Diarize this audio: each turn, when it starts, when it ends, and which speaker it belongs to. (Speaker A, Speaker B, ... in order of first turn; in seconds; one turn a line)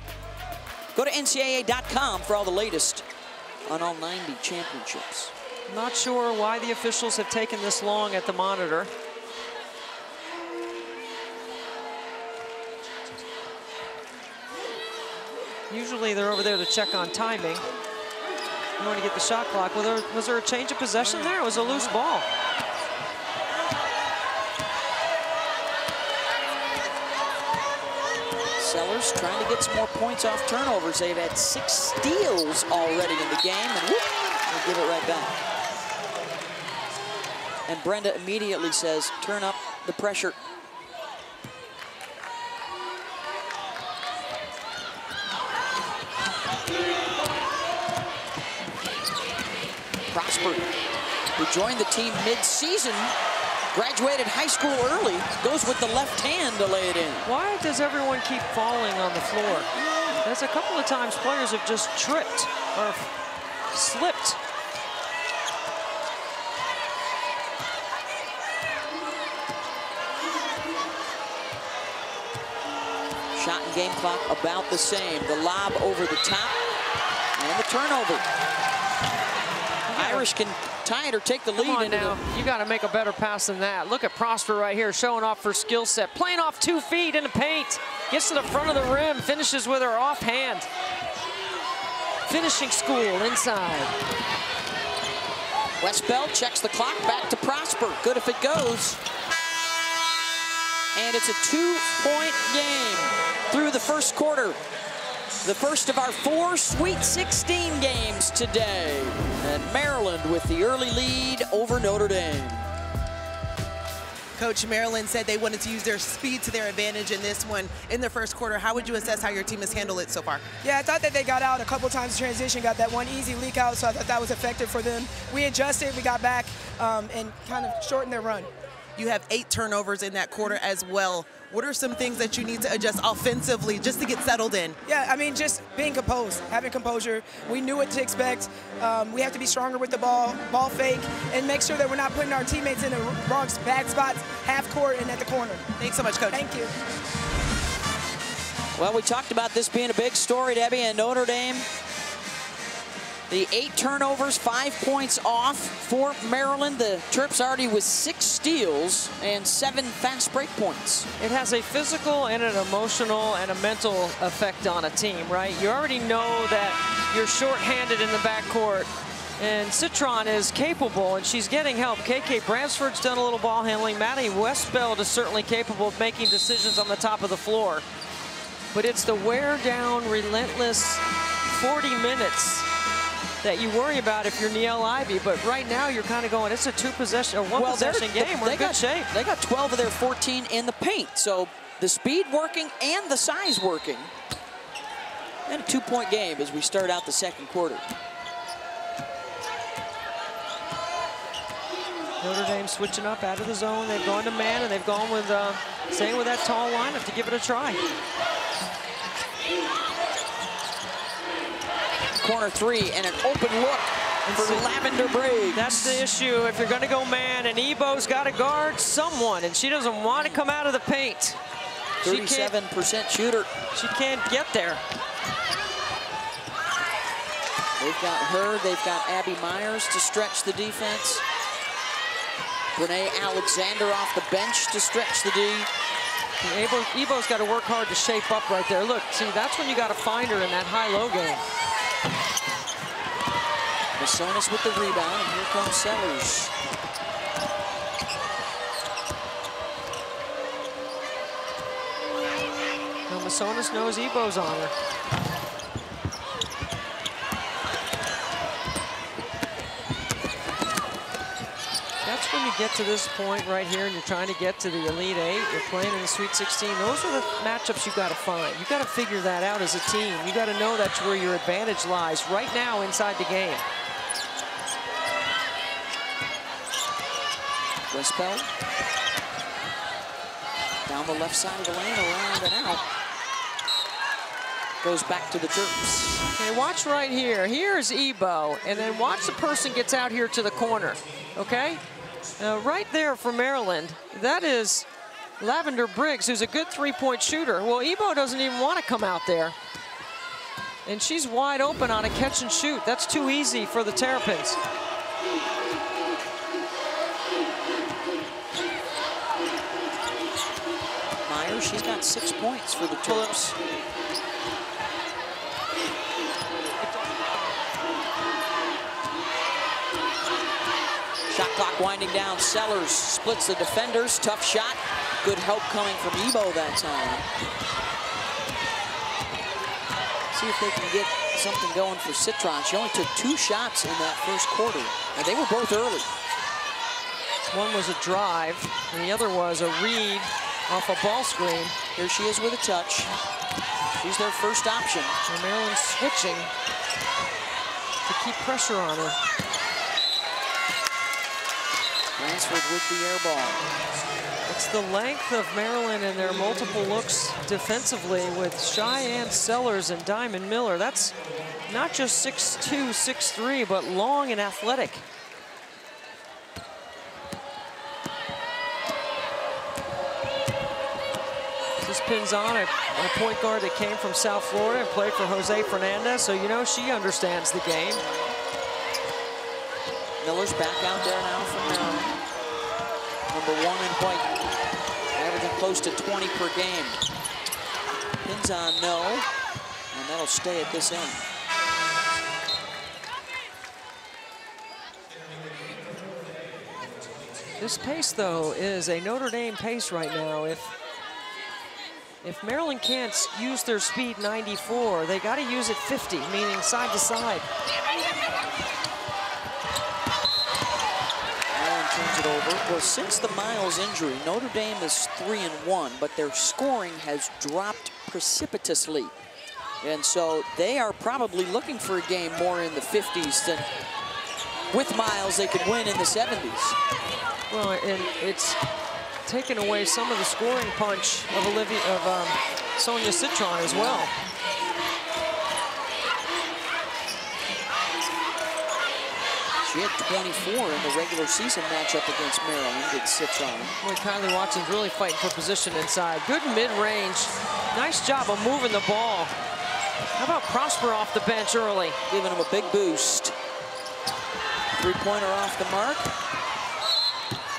Speaker A: 0.9-3.0
Speaker A: 3.6-5.3
Speaker B: 5.7-8.9
Speaker B: 15.7-17.6
Speaker B: 18.8-22.2
Speaker A: 21.0-21.9
Speaker A: 28.6-35.3
Speaker A: 37.6-40.4
Speaker A: 50.1-50.7
Speaker A: 51.3-53.1
Speaker A: 53.7-57.3
Speaker B: 57.2-59.7
Speaker A: 59.7-60.2
Speaker B: 60.2-63.1
Speaker B: 63.7-64.4
Speaker A: 73.3-76.6
Speaker A: 77.3-78.2
Speaker B: 79.9-80.2
Speaker A: 79.9-82.2
Speaker B: 81.5-90.7
Speaker B: 92.3-93.9
Speaker A: 95.8-99.0
Speaker A: 100.9-104.6
Speaker A: 105.4-112.7
Speaker C: 114.4-120.4
Speaker D: 120.6-128.5
Speaker C: 129.0-134.8
Speaker D: 134.8-145.7
Speaker C: 145.8-146.4
Speaker D: 146.3-146.7
Speaker A: 148.7-151.7
Speaker A: 153.3-161.1
Speaker B: 161.2-177.8
Speaker B: 178.7-182.7
Speaker B: 183.4-189.1
Speaker A: 187.5-194.1
Speaker A: 195.5-197.8
Speaker B: 202.2-207.8
Speaker A: 212.2-216.0
Speaker B: 214.2-214.7
Speaker B: 215.5-221.4
Speaker A: 220.1-220.4
Speaker B: 222.0-222.5
Speaker A: 222.0-223.5
Speaker B: 223.7-224.8
Speaker A: 227.8-231.2
Speaker A: 232.7-235.7
Speaker B: 236.4-241.4
Speaker A: 243.9-246.5
Speaker B: 253.1-254.7
Speaker B: 262.0-273.6
Speaker A: 277.9-278.5
Speaker A: 280.8-282.8
Speaker A: 284.8-286.2
Speaker B: 286.4-291.8
Speaker B: 292.4-294.9
Speaker B: 295.4-299.5
Speaker B: 300.9-304.6
Speaker A: 311.2-313.6
Speaker A: 321.3-327.3
Speaker A: 330.3-336.1
Speaker B: 337.5-341.7
Speaker A: 341.9-343.1
Speaker A: 343.9-345.2
Speaker B: 345.3-346.5
Speaker B: 348.1-349.2
Speaker A: 352.2-353.6
Speaker B: 354.5-361.1
Speaker B: 361.7-365.0
Speaker B: 371.8-378.0
Speaker A: 378.1-378.3
Speaker A: 380.2-382.2
Speaker A: 383.3-384.3
Speaker A: 385.1-387.0
Speaker A: 388.2-389.2
Speaker A: 389.9-391.2
Speaker B: 397.6-400.7
Speaker B: 402.2-407.5
Speaker A: 411.5-419.1
Speaker A: 419.8-423.7
Speaker A: 424.7-426.8
Speaker B: 427.5-428.6
Speaker B: 429.2-434.1
Speaker A: 433.6-434.1
Speaker A: 439.6-443.8
Speaker B: 443.8-449.3
Speaker B: 450.2-452.0
Speaker A: 452.1-453.3
Speaker A: 454.8-456.1